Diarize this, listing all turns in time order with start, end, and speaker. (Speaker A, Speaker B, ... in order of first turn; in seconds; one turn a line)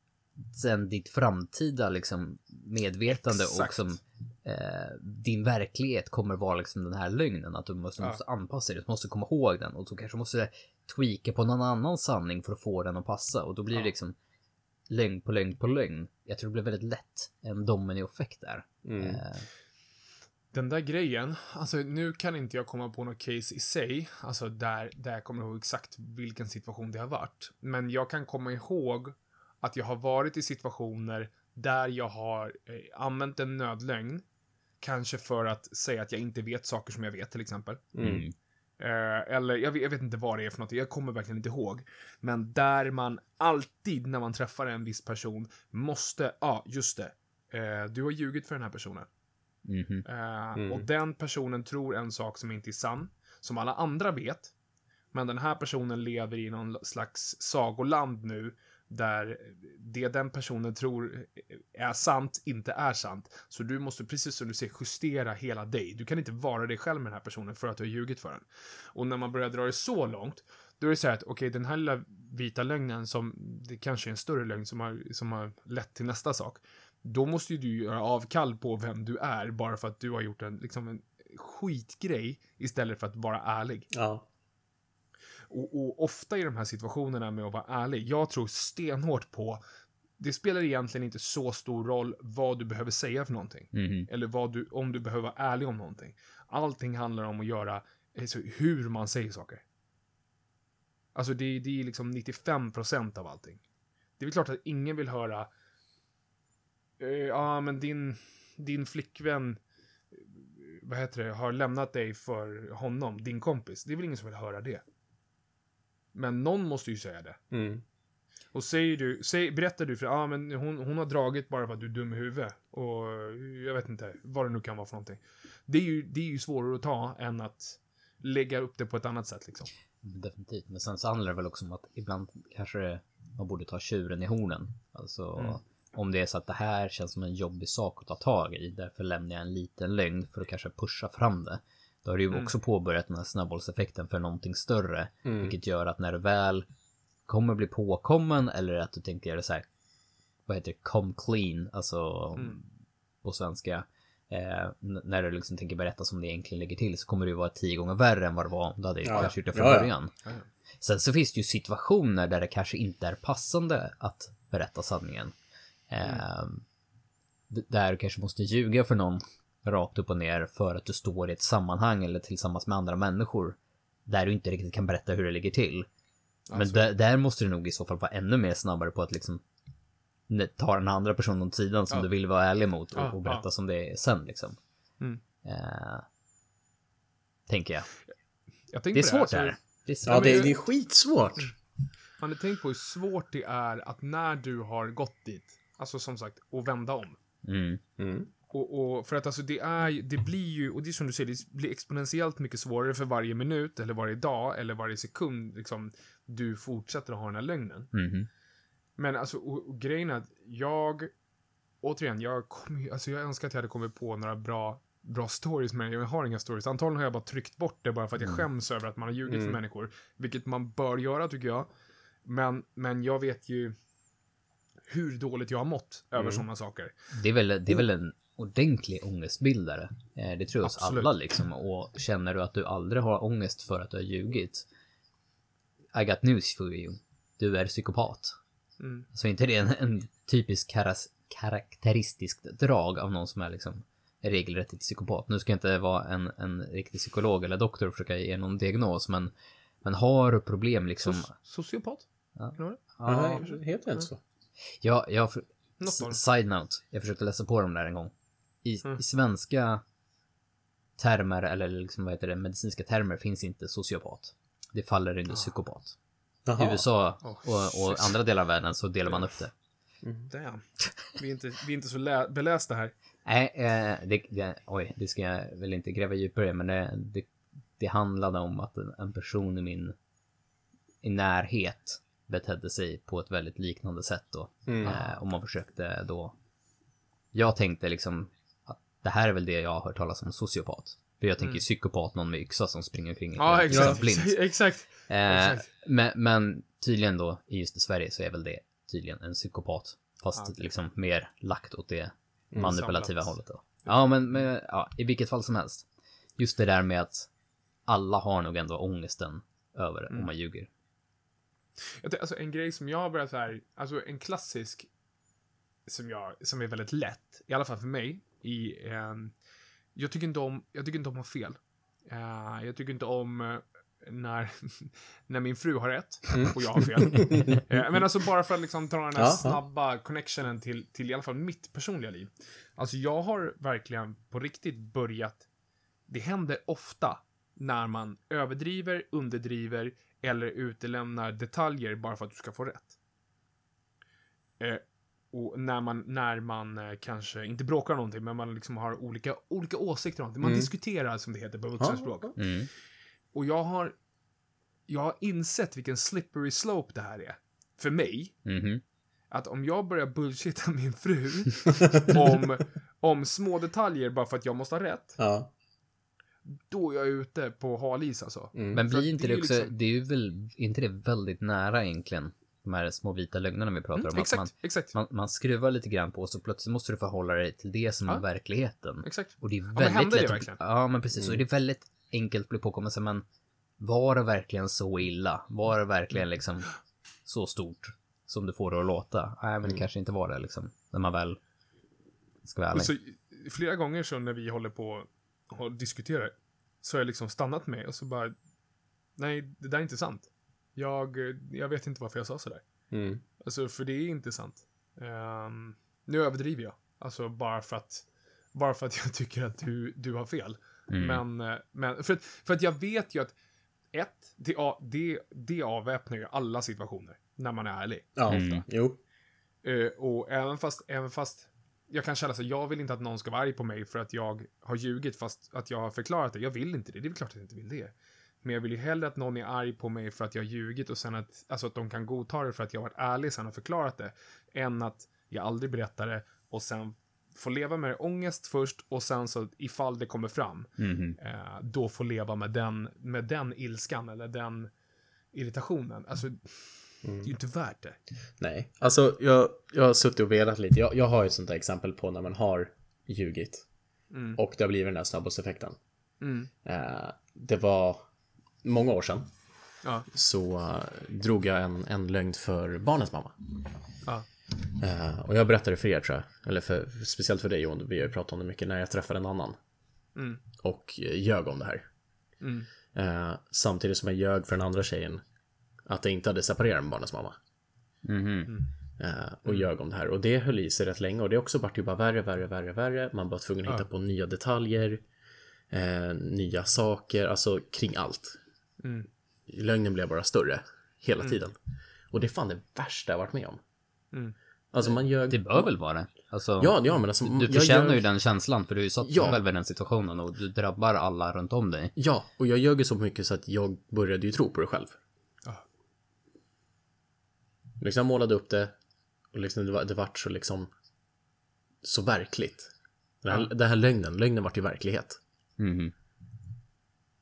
Speaker A: 0.5-14.2
Speaker B: 3.1-3.9
Speaker A: 14.9-19.5
Speaker C: 18.9-19.2
Speaker B: 20.5-34.2
Speaker B: 34.8-37.9
Speaker C: 38.0-38.2
Speaker A: 38.0-38.4
Speaker B: 38.8-49.1
Speaker A: 49.7-50.0
Speaker B: 50.1-54.5
Speaker C: 50.6-50.9
Speaker B: 55.1-83.9
Speaker C: 83.9-84.3
Speaker B: 85.5-89.6
Speaker B: 90.2-99.6
Speaker A: 93.7-94.1
Speaker B: 101.2-103.6
Speaker B: 104.2-105.5
Speaker B: 107.0-109.6
Speaker B: 110.2-114.8
Speaker B: 116.1-117.4
Speaker C: 117.5-117.8
Speaker B: 118.5-129.7
Speaker A: 130.0-146.7
Speaker C: 145.2-145.6
Speaker A: 147.3-149.7
Speaker A: 150.5-152.7
Speaker A: 153.2-160.1
Speaker C: 159.0-159.9
Speaker A: 160.8-165.3
Speaker A: 165.9-166.7
Speaker A: 167.5-175.9
Speaker B: 176.5-176.9
Speaker A: 176.6-179.4
Speaker A: 180.3-184.6
Speaker B: 182.9-183.5
Speaker A: 185.4-186.1
Speaker A: 187.5-187.9
Speaker B: 188.7-190.5
Speaker A: 188.9-190.5
Speaker C: 190.1-191.5
Speaker B: 192.2-197.2
Speaker A: 197.4-197.8
Speaker C: 198.0-198.3
Speaker B: 198.5-207.9
Speaker A: 207.9-208.3
Speaker B: 209.0-211.1
Speaker B: 211.8-221.7
Speaker A: 218.2-218.5
Speaker C: 219.3-219.6
Speaker B: 222.2-223.8
Speaker B: 224.9-226.9
Speaker C: 226.2-226.4
Speaker A: 227.1-234.7
Speaker B: 230.6-231.1
Speaker A: 235.9-238.4
Speaker B: 238.8-239.1
Speaker A: 239.1-249.3
Speaker A: 249.8-251.3
Speaker B: 251.0-254.1
Speaker A: 252.4-253.5
Speaker C: 253.1-254.2
Speaker A: 254.8-258.1
Speaker B: 255.8-256.2
Speaker A: 258.6-259.8
Speaker A: 261.0-266.0
Speaker C: 266.5-266.9
Speaker A: 266.6-269.5
Speaker B: 267.2-268.2
Speaker C: 270.0-270.3
Speaker B: 270.3-272.9
Speaker A: 273.3-279.9
Speaker A: 281.0-286.4
Speaker C: 284.7-284.9
Speaker B: 284.8-285.2
Speaker A: 287.3-294.4
Speaker B: 293.4-295.6
Speaker C: 293.7-294.0
Speaker A: 295.1-305.9
Speaker B: 300.4-300.7
Speaker B: 302.6-304.5
Speaker A: 306.4-307.3
Speaker A: 307.9-310.7
Speaker B: 312.0-314.9
Speaker B: 315.9-319.3
Speaker B: 319.9-335.4
Speaker C: 326.3-328.0
Speaker C: 329.1-329.6
Speaker B: 336.1-342.9
Speaker B: 344.6-352.4
Speaker C: 350.4-350.7
Speaker C: 351.8-352.3
Speaker A: 352.4-352.7
Speaker B: 353.3-353.9
Speaker B: 354.9-358.4
Speaker A: 358.5-358.8
Speaker B: 359.3-365.2
Speaker C: 361.8-362.1
Speaker C: 365.2-365.5
Speaker B: 366.5-369.7
Speaker C: 368.6-368.8
Speaker A: 368.7-383.2
Speaker B: 373.9-374.9
Speaker B: 379.0-380.6
Speaker A: 383.8-386.7
Speaker A: 387.2-391.4
Speaker A: 392.4-392.9
Speaker B: 392.7-398.4
Speaker B: 399.2-402.6
Speaker C: 402.9-403.2
Speaker B: 403.4-413.4
Speaker A: 410.9-411.2
Speaker B: 413.9-418.5
Speaker C: 418.2-419.0
Speaker A: 418.3-418.6
Speaker B: 419.6-444.7
Speaker A: 440.8-441.2
Speaker B: 445.3-448.0
Speaker C: 447.0-447.3
Speaker C: 448.4-453.6
Speaker B: 454.1-454.4
Speaker C: 454.4-455.8
Speaker B: 456.2-456.5
Speaker C: 456.6-458.0
Speaker C: 458.6-459.3
Speaker C: 460.1-463.4
Speaker C: 464.8-469.6
Speaker B: 470.2-470.4
Speaker C: 470.6-471.8
Speaker B: 472.4-472.7
Speaker C: 472.9-475.2
Speaker C: 475.9-477.4
Speaker A: 478.1-478.5
Speaker C: 479.0-485.0
Speaker C: 485.7-488.4
Speaker B: 488.8-489.1
Speaker C: 489.5-491.6
Speaker C: 492.1-493.6
Speaker C: 494.7-495.7
Speaker A: 495.3-501.9
Speaker C: 496.6-498.1
Speaker C: 499.0-499.4
Speaker C: 502.0-505.0
Speaker C: 507.8-508.7
Speaker C: 509.3-510.7
Speaker C: 511.8-512.7
Speaker C: 513.2-515.2
Speaker A: 515.6-515.9